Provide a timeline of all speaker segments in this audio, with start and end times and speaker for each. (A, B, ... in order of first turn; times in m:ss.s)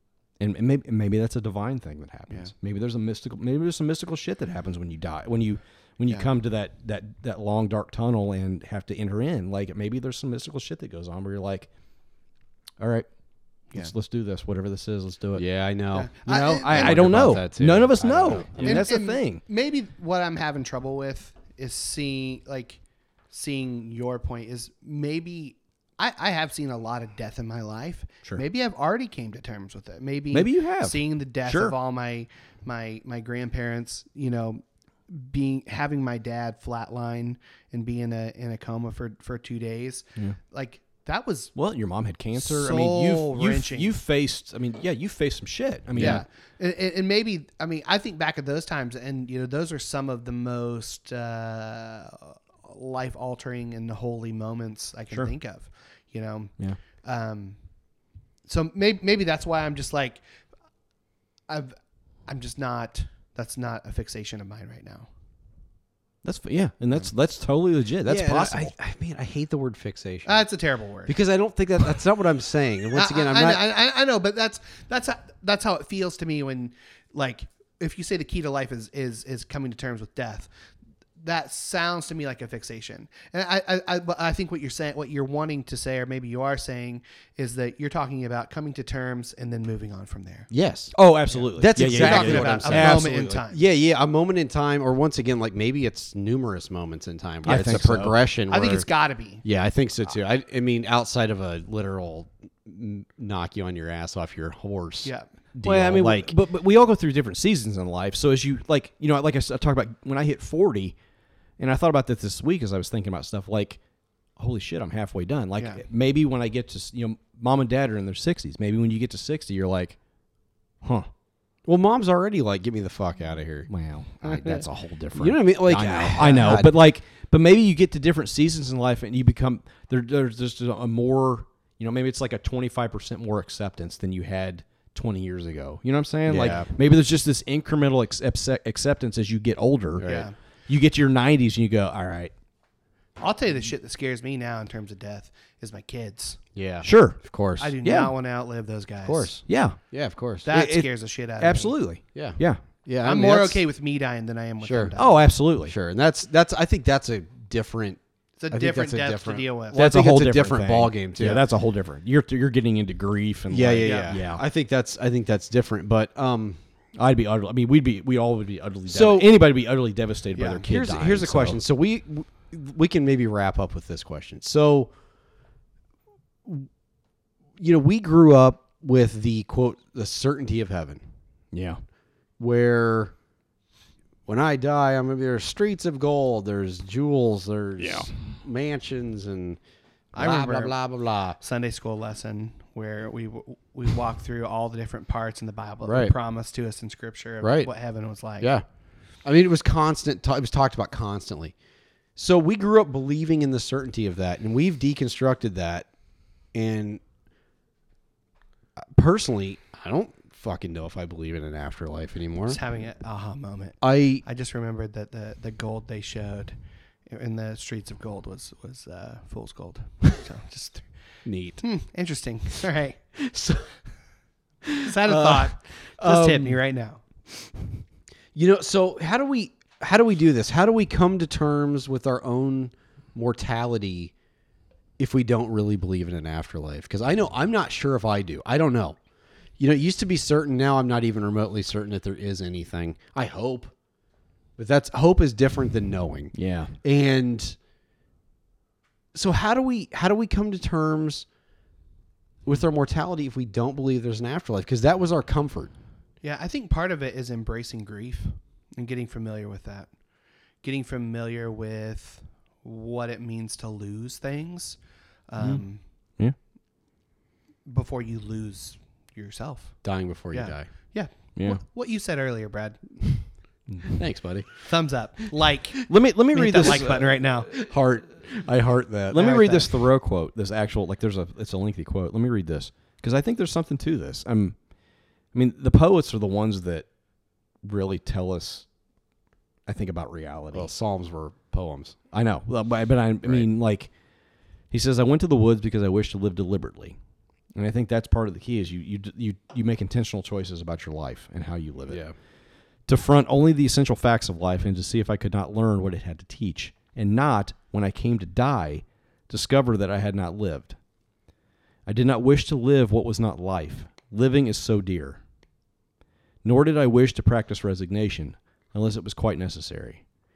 0:00.4-0:11.7 A
0:12.8-0:13.1 A
0:13.7-0:15.5 A
0:15.3-0:18.8 B
0:15.9-0:17.0 C
0:16.3-0:19.4 A
0:18.6-0:41.5 C
0:30.3-0:31.8 A
0:41.5-0:46.2 A
0:42.3-0:43.9 C
0:45.9-0:46.2 B
0:46.0-0:57.9 C
0:58.4-1:00.2 C
1:01.5-1:05.1 C
1:06.2-1:08.7 A
1:08.0-1:10.5 B
1:10.2-1:11.1 C
1:11.0-1:13.6 B
1:12.9-1:20.5 C
1:21.2-1:30.5 C
1:30.5-1:30.9 B
1:30.9-1:33.4 A
1:31.3-1:33.6 C
1:31.6-1:38.9 B
1:37.4-1:38.2 A
1:38.5-1:39.4 C
1:39.4-1:46.3 B
1:45.0-1:45.3 C
1:45.6-1:51.0 A
1:51.6-1:53.8 A
1:54.4-2:00.0 A
2:00.8-2:01.1 A
2:01.6-2:03.7 B
2:03.7-2:22.3 A
2:05.1-2:06.8 B
2:16.3-2:16.7 B
2:20.0-2:20.3 B
2:20.0-2:20.3 C
2:23.2-2:26.4 C
2:26.5-2:27.8 B
2:26.8-2:27.3 A
2:27.6-2:29.3 C
2:27.8-2:28.1 A
2:29.0-2:30.5 B
2:29.5-2:29.9 A
2:30.4-2:32.6 A
2:30.4-2:31.8 C
2:32.1-2:33.6 B
2:33.0-2:35.2 C
2:34.6-2:41.4 B
2:35.0-2:35.7 A
2:38.4-2:39.8 C
2:39.7-2:44.4 A
2:43.5-2:46.6 B
2:43.8-2:44.2 C
2:47.0-2:51.6 A
2:48.9-2:49.3 B
2:50.4-2:50.6 C
2:50.6-2:54.9 B
2:57.6-3:01.0 B
3:01.5-3:01.8 A
3:02.4-3:03.1 B
3:04.2-3:09.6 B
3:07.8-3:08.1 A
3:10.1-3:11.4 B
3:10.1-3:10.8 C
3:11.4-3:18.5 C
3:15.8-3:16.2 B
3:17.4-3:17.7 B
3:18.4-3:18.6 B
3:19.2-3:21.5 B
3:22.2-3:25.9 B
3:26.5-3:27.0 B
3:28.8-3:32.6 B
3:32.4-3:43.0 C
3:33.8-3:34.2 B
3:41.2-3:41.6 B
3:43.2-3:43.7 B
3:44.8-3:47.0 C
3:44.9-3:46.6 B
3:48.3-3:54.1 B
3:55.0-3:59.0 B
3:59.6-4:03.7 B
4:04.6-4:07.6 B
4:06.3-4:06.7 A
4:09.1-4:11.2 B
4:12.4-4:15.7 B
4:16.2-4:20.0 C
4:20.6-4:25.8 C
4:25.4-4:25.6 A
4:27.6-4:29.8 C
4:29.8-4:30.7 B
4:30.3-4:32.8 C
4:31.4-4:31.6 A
4:33.9-4:34.7 B
4:34.7-4:37.5 C
4:35.8-4:37.2 A
4:36.6-4:39.7 B
4:39.1-4:44.6 A
4:39.2-4:39.6 C
4:45.3-4:46.9 A
4:47.6-4:48.7 A
4:49.7-4:50.7 A
4:50.5-4:52.0 B
4:52.1-4:53.9 A
4:54.7-4:57.0 A
4:57.5-5:02.1 A
5:01.9-5:02.1 B
5:02.9-5:10.8 A
5:11.8-5:15.2 A
5:16.4-5:20.0 A